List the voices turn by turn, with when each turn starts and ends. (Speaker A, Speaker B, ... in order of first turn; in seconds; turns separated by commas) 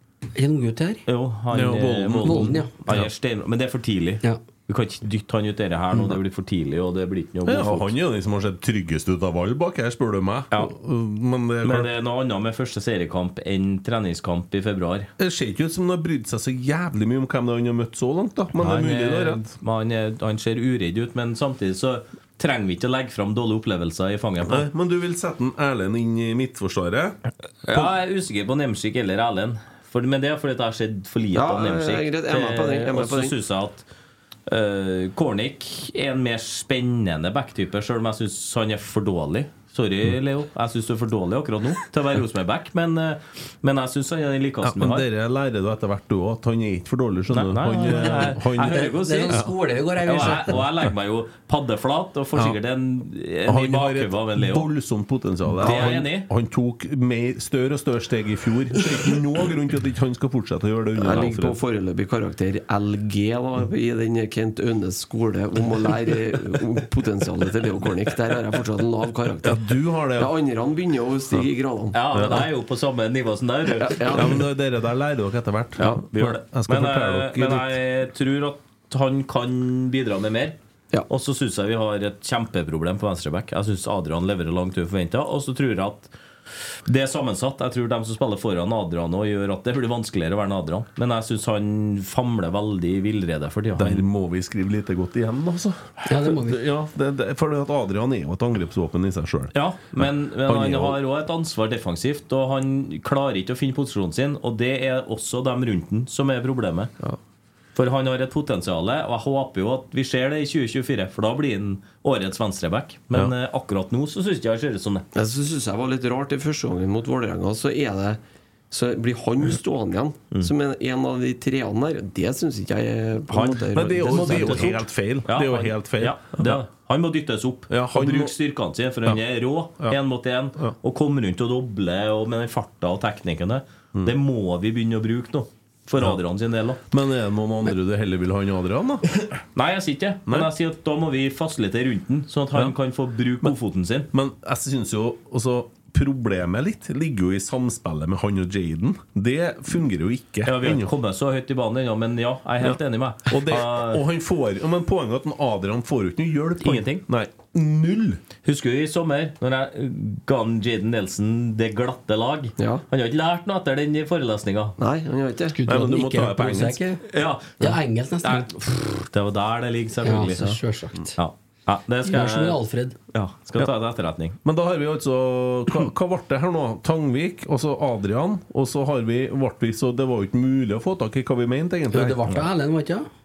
Speaker A: 0.3-1.0, Speaker B: 1.1-7.9, Speaker C: 1.5-3.1, Speaker A: 2.2-2.8, Speaker C: 7.5-11.9, Speaker B: 11.6-15.1, Speaker C: 15.2-19.5, Speaker B: 18.6-24.6, Speaker C: 24.5-27.2, Speaker B: 27.6-33.8, Speaker D: 31.3-33.3, Speaker B: 34.5-45.1, Speaker C: 44.6-49.5, Speaker B: 47.3-54.7, Speaker A: 47.9-50.6, Speaker C: 53.5-61.6, Speaker B: 55.6-56.3, Speaker D: 60.9-72.0, Speaker C: 69.4-70.3, Speaker B: 71.9-74.2, Speaker C: 72.1-72.4, Speaker D: 73.8-74.4, Speaker C: 74.1-77.7, Speaker B: 75.8-80.6, Speaker B: 81.1-86.1, Speaker B: 86.8-94.0, Speaker C: 93.8-101.0, Speaker A: 96.0-96.6, Speaker B: 99.5-106.9, Speaker B: 107.7-115.0, Speaker D: 115.1-118.2, Speaker D: 118.7-124.8, Speaker B: 123.3-136.8, Speaker C: 123.7-126.6, Speaker C: 127.7-128.3, Speaker C: 136.9-139.1, Speaker B: 139.5-144.1, Speaker C: 144.1-150.9, Speaker B: 150.4-154.0, Speaker C: 152.6-158.2, Speaker B: 156.6-157.1, Speaker B: 158.4-164.8, Speaker D: 162.6-162.8, Speaker D: 164.8-165.6, Speaker A: 165.5-167.0, Speaker C: 165.7-166.8, Speaker B: 167.1-170.5, Speaker A: 167.6-168.5, Speaker A: 170.0-171.1, Speaker B: 171.2-172.6, Speaker A: 172.0-173.0, Speaker B: 173.1-174.4, Speaker C: 174.4-182.2, Speaker A: 181.9-183.1